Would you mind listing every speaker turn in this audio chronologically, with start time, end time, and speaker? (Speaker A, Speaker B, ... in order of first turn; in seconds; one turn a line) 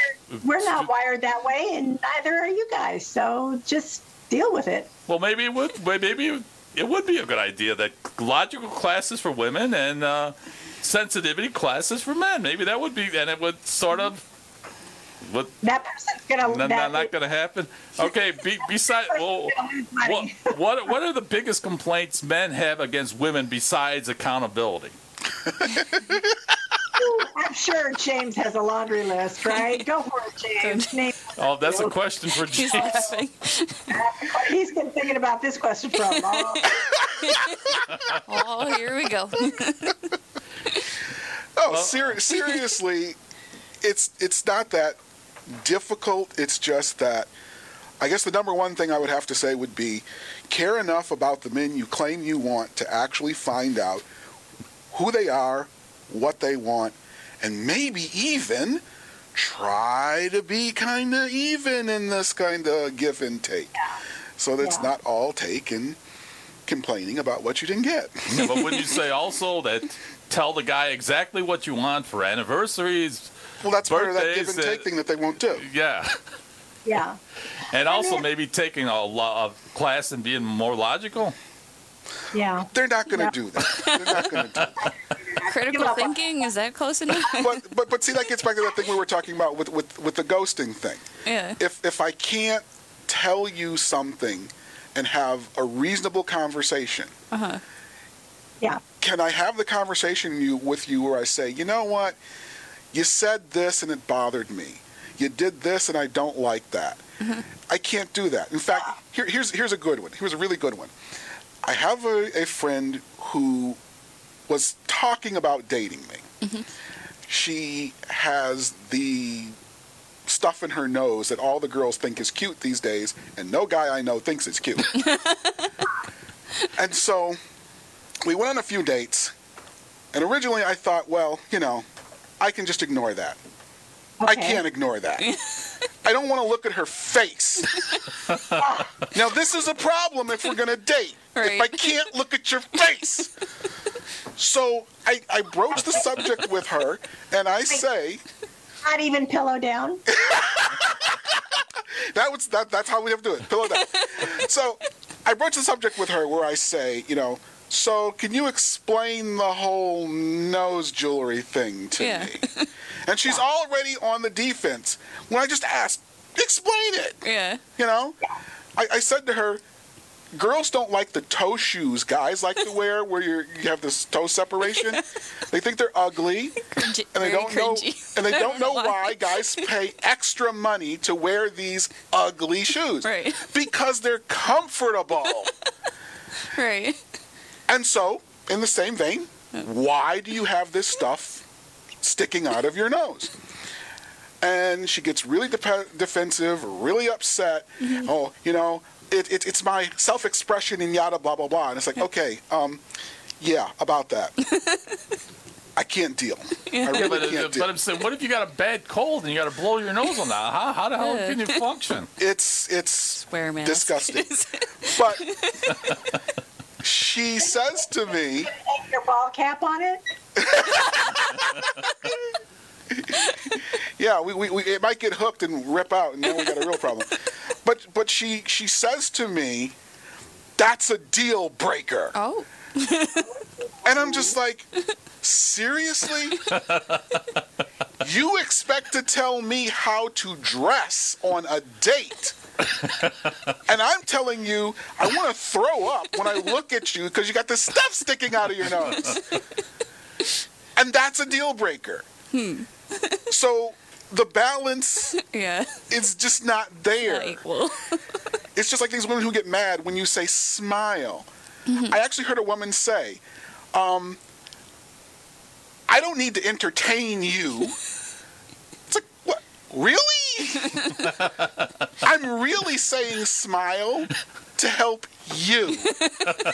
Speaker A: 0.3-0.9
Speaker B: 0.4-4.9
Speaker A: 5.1-14.2
Speaker A: 15.2-15.5
Speaker B: 15.6-17.1
Speaker A: 16.4-24.9
Speaker B: 19.1-20.5
Speaker C: 25.6-26.2
Speaker B: 26.9-31.9
Speaker D: 30.6-30.9
Speaker A: 31.4-33.1
Speaker D: 32.5-34.0
Speaker B: 32.6-33.2
Speaker B: 33.9-36.8
Speaker D: 37.2-40.1
Speaker C: 41.6-43.2
Speaker A: 41.7-42.0
Speaker C: 43.8-45.0
Speaker C: 45.5-47.3
Speaker C: 48.0-54.0
Speaker C: 54.9-58.8
Speaker C: 59.3-63.7
Speaker C: 64.4-66.0
Speaker B: 64.6-64.9
Speaker C: 66.7-68.7
Speaker A: 68.3-73.3
Speaker C: 73.6-75.6
Speaker A: 73.8-74.9
Speaker A: 75.6-76.2
Speaker B: 76.8-77.2
Speaker A: 77.7-81.3
Speaker B: 77.8-78.2
Speaker B: 82.3-83.3
Speaker C: 82.7-84.9
Speaker D: 83.7-84.2
Speaker A: 84.4-84.7
Speaker B: 85.2-86.3
Speaker D: 85.5-87.5
Speaker C: 87.3-91.0
Speaker D: 91.2-91.6
Speaker C: 91.6-97.1
Speaker D: 97.3-97.6
Speaker C: 99.0-102.2
Speaker C: 102.9-107.0
Speaker C: 107.7-110.9
Speaker C: 111.6-113.8
Speaker C: 114.5-116.2
Speaker C: 117.3-119.5
Speaker C: 120.3-124.9
Speaker D: 124.9-125.7
Speaker C: 126.8-127.4
Speaker C: 128.2-129.3
Speaker C: 130.1-131.8
Speaker C: 132.4-133.4
Speaker B: 134.2-134.6
Speaker C: 134.2-135.3
Speaker D: 135.2-135.7
Speaker C: 136.0-137.9
Speaker D: 137.7-138.0
Speaker B: 138.6-138.9
Speaker C: 139.1-143.3
Speaker D: 141.3-142.0
Speaker C: 144.3-148.2
Speaker B: 148.8-150.0
Speaker C: 150.1-162.4
Speaker D: 153.9-154.3
Speaker D: 162.0-162.7
Speaker C: 163.0-167.2
Speaker D: 167.2-167.6
Speaker C: 167.8-168.2
Speaker C: 168.8-169.6
Speaker C: 170.3-185.5
Speaker D: 176.7-179.7
Speaker D: 183.0-183.4
Speaker D: 186.5-187.0
Speaker C: 187.7-191.4
Speaker C: 192.0-193.3
Speaker C: 194.4-202.8
Speaker C: 203.4-204.3
Speaker D: 204.5-204.9
Speaker C: 205.8-207.7
Speaker D: 206.7-207.1
Speaker A: 206.9-212.1
Speaker D: 211.0-211.4
Speaker C: 212.2-214.3
Speaker D: 213.3-215.9
Speaker C: 214.8-215.3
Speaker C: 216.8-218.5
Speaker B: 218.5-220.0
Speaker C: 220.4-222.2
Speaker B: 220.6-221.0
Speaker C: 222.9-229.8
Speaker C: 230.6-232.1
Speaker D: 232.2-233.3
Speaker C: 233.8-234.7
Speaker C: 235.2-236.5
Speaker A: 236.5-237.0
Speaker C: 238.0-242.4
Speaker A: 242.8-243.5
Speaker C: 243.7-249.2
Speaker C: 250.8-252.1
Speaker D: 252.3-253.2
Speaker C: 253.3-255.2
Speaker D: 255.1-255.7
Speaker C: 255.9-257.4
Speaker D: 257.0-258.0
Speaker C: 258.6-263.2
Speaker D: 261.7-262.0
Speaker C: 263.7-264.2
Speaker C: 265.9-267.8
Speaker C: 268.9-270.9
Speaker A: 271.2-271.5
Speaker C: 272.0-276.0